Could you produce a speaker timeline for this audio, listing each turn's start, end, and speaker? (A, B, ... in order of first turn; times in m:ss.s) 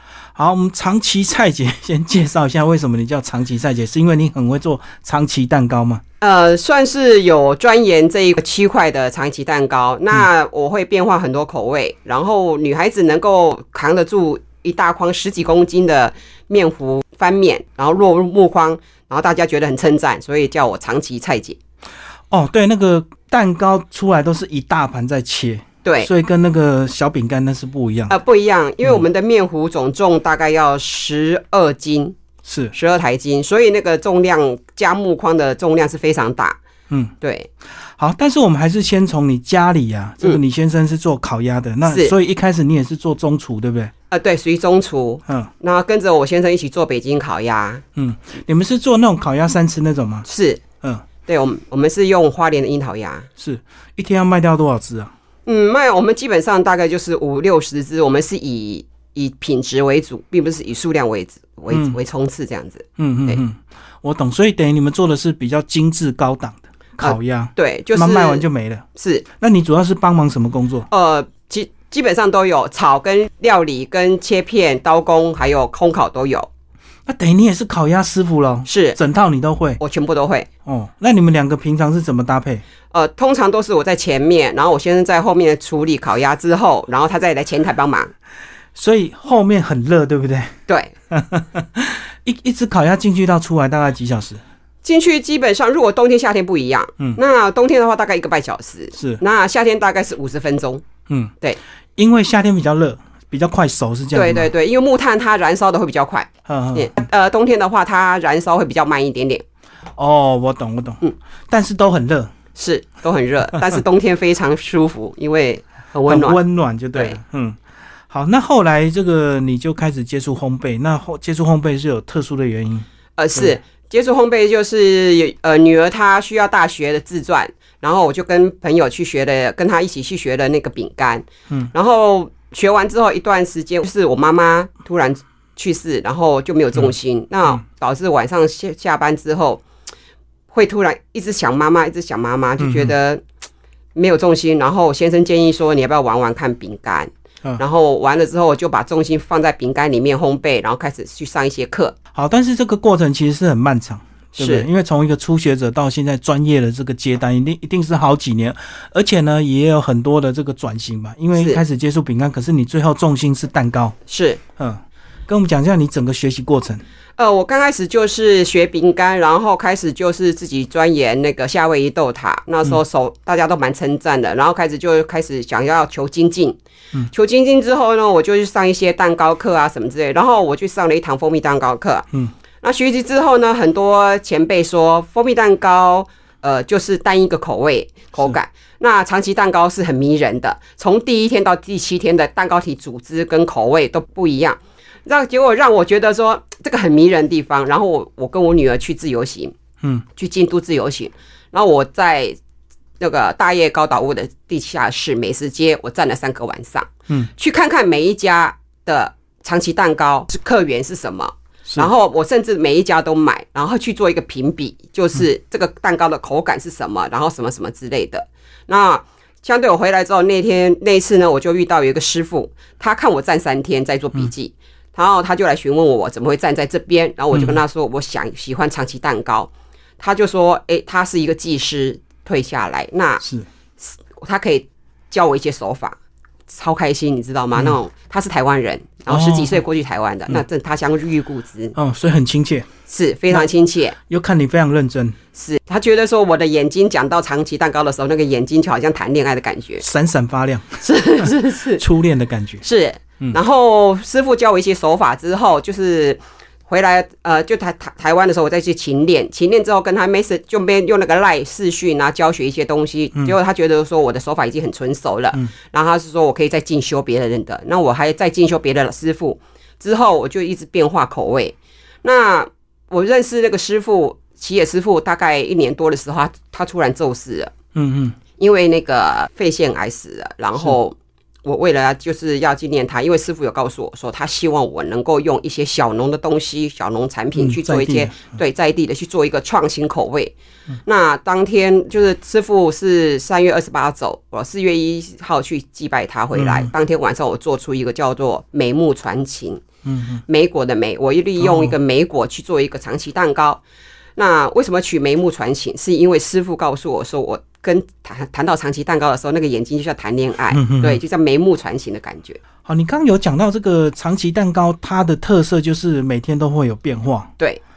0:00.3-0:06.0 A
0:06.2-0:21.6 B
0:22.3-0:28.1 A
0:25.8-0:26.1 B
0:28.1-0:32.2 B
0:32.4-0:32.7 A
0:32.7-0:36.6 B
0:37.2-0:37.5 B
0:37.7-0:43.9 A
0:41.9-0:42.1 B
0:44.1-0:47.8 B
0:48.0-0:50.2 A
0:50.2-0:50.6 B
0:51.2-0:53.3 B
0:53.4-0:55.1 A
0:55.4-1:03.4 B
1:01.7-1:02.0 A
1:03.0-1:08.8 A
1:07.0-1:09.2 B
1:09.4-1:10.9 A
1:10.9-1:16.5 B
1:17.0-1:19.8 A
1:18.6-1:19.0 B
1:19.8-1:20.5 B
1:20.6-1:22.6 A
1:22.9-1:28.1 B
1:28.7-1:30.5 A
1:30.7-1:30.9 B
1:31.1-1:34.4 A
1:34.8-1:40.8 B
1:38.9-1:39.2 A
1:42.0-1:44.5 A
1:44.1-1:49.4 B
1:46.4-1:46.9 A
1:50.0-1:52.3 A
1:52.5-1:56.4 B
1:56.1-1:57.6 A
1:58.1-2:03.5 A
2:03.2-2:19.6 B
2:20.5-2:23.2 B
2:22.6-2:22.9 A
2:23.9-2:31.9 B
2:32.1-2:44.0 A
2:34.4-2:34.7 B
2:41.3-2:41.6 B
2:44.1-2:44.4 B
2:44.6-2:46.8 A
2:47.2-2:56.6 B
2:57.1-3:02.0 B
3:02.6-3:19.6 B
3:20.1-3:22.4 B
3:23.0-3:53.2 B
3:47.3-3:47.6 A
3:53.9-3:56.0 B
3:56.5-4:01.7 B
3:59.1-3:59.6 A
4:01.7-4:02.7 A
4:02.9-4:04.0 B
4:04.0-4:05.2 A
4:05.3-4:09.8 B
4:09.8-4:12.6 A
4:10.8-4:11.8 B
4:12.6-4:37.5 B
4:37.7-4:38.2 A
4:38.4-4:50.3 B
4:47.4-4:48.2 A
4:50.8-4:59.6 B
4:56.3-4:56.7 A
4:59.8-5:00.2 A
5:00.3-5:03.6 B
5:01.4-5:01.7 A
5:04.2-5:12.4 B
5:10.5-5:11.0 A
5:12.6-5:17.3 A